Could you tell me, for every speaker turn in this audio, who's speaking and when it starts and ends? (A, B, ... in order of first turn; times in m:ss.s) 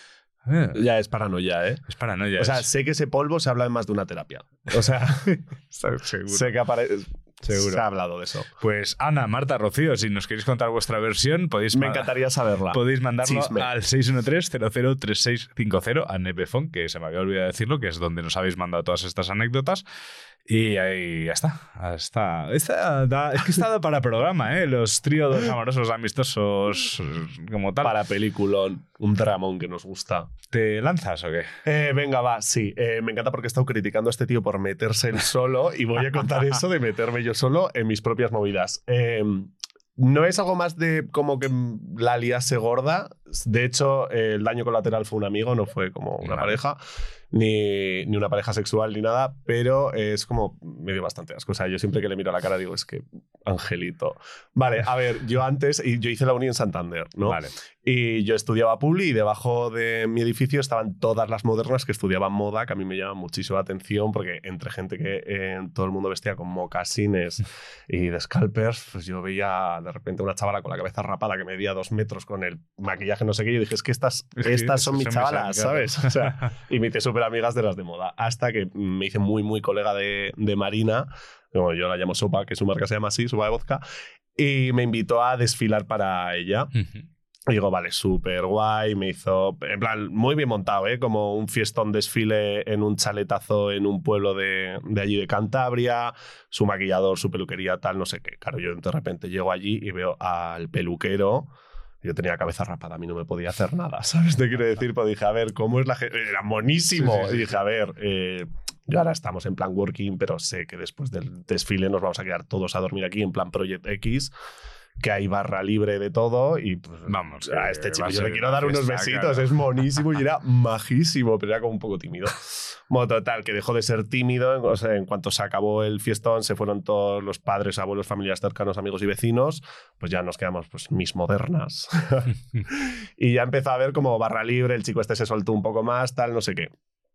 0:00.4-0:00.8 A
0:00.7-0:01.8 B
0:01.9-0:02.7 A
0:02.4-0:05.4 B
0:05.3-0:06.5 A
0:06.3-0:08.5 B
0:07.4-0:07.8 A
0:08.6-0:12.1 A
0:11.7-0:13.7 B
0:12.7-0:19.8 A
0:20.4-0:27.9 A
0:27.8-0:30.3 B
0:30.5-0:31.5 A
0:31.6-0:46.8 B
0:46.2-0:46.6 A
0:47.3-1:23.8 B
0:57.2-0:57.5 A
1:14.4-1:16.5 A
1:24.4-1:26.7 B
1:26.8-1:27.0 A
1:27.5-1:41.5 B
1:42.0-1:54.3 B
1:46.9-1:47.5 A
1:55.0-2:16.7 B
1:57.1-1:59.5 A